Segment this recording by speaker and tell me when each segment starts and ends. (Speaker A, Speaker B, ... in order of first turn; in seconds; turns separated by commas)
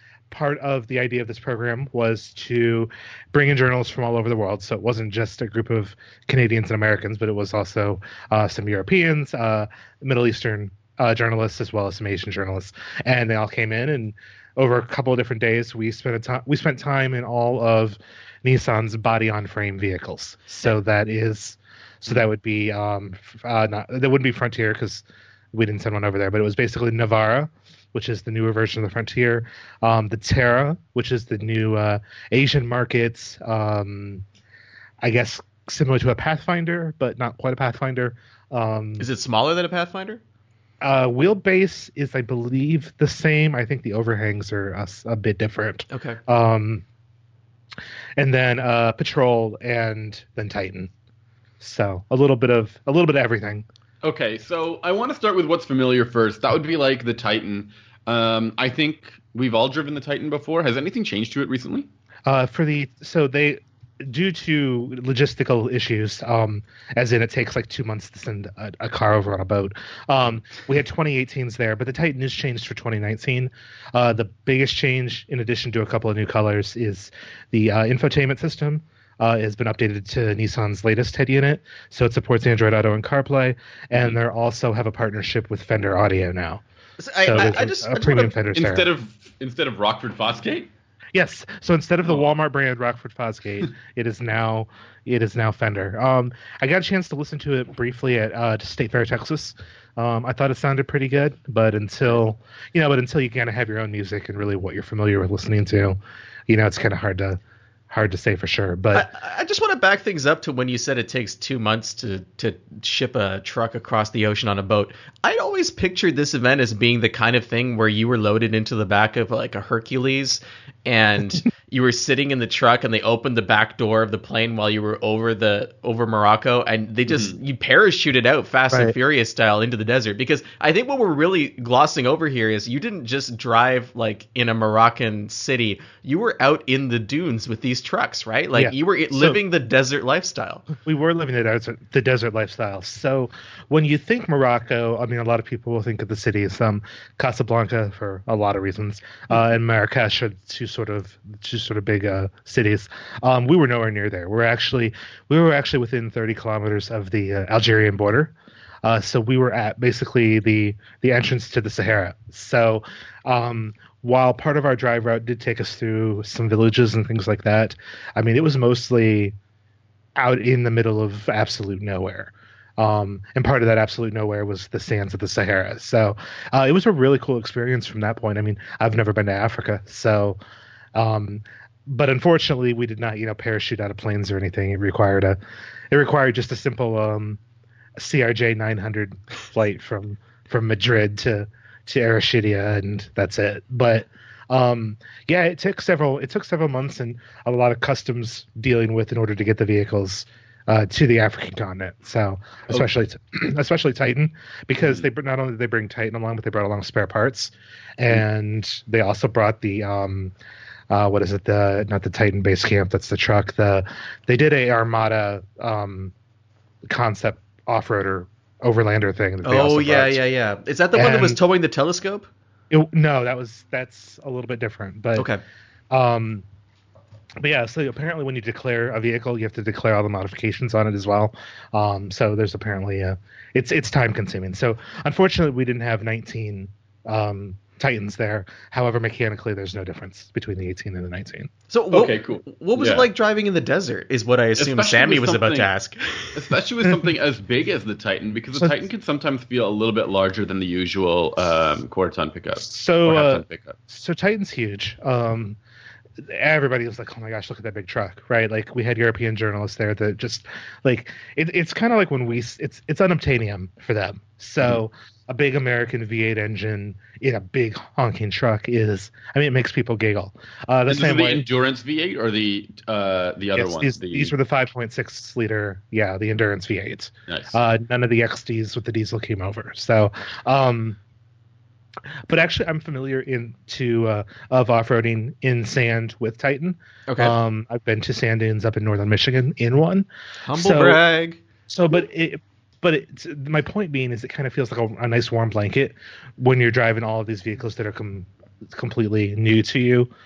Speaker A: 0.3-34.2, Speaker A: 35.0-39.0, Speaker B: 39.0-40.2, Speaker A: 40.8-46.8, Speaker B: 45.9-46.2, Speaker A: 48.2-50.9, Speaker A: 51.6-53.6, Speaker C: 54.0-61.9, Speaker A: 62.2-86.6, Speaker B: 87.0-88.3, Speaker A: 87.2-88.9, Speaker C: 88.5-90.7, Speaker A: 91.1-107.4, Speaker A: 107.9-109.1, Speaker B: 108.9-140.7, Speaker C: 127.1-127.4, Speaker A: 138.5-139.4, Speaker A: 140.8-169.3, Speaker A: 170.2-180.4, Speaker A: 180.9-185.4, Speaker A: 185.9-187.4, Speaker A: 188.0-210.3, Speaker A: 210.9-216.1, Speaker A: 216.9-220.2, Speaker B: 219.4-222.3, Speaker A: 220.9-221.4, Speaker A: 222.7-225.3, Speaker B: 225.2-225.4, Speaker A: 225.9-226.4, Speaker A: 227.4-241.5, Speaker B: 241.7-246.4, Speaker C: 241.9-243.1, Speaker C: 244.6-245.7, Speaker C: 246.3-253.8, Speaker A: 252.6-255.6, Speaker A: 256.2-271.4, Speaker C: 270.9-274.3, Speaker A: 273.6-281.0, Speaker C: 277.3-277.6, Speaker A: 282.3-291.0, Speaker B: 287.1-287.4, Speaker B: 290.4-291.4, Speaker A: 291.7-300.1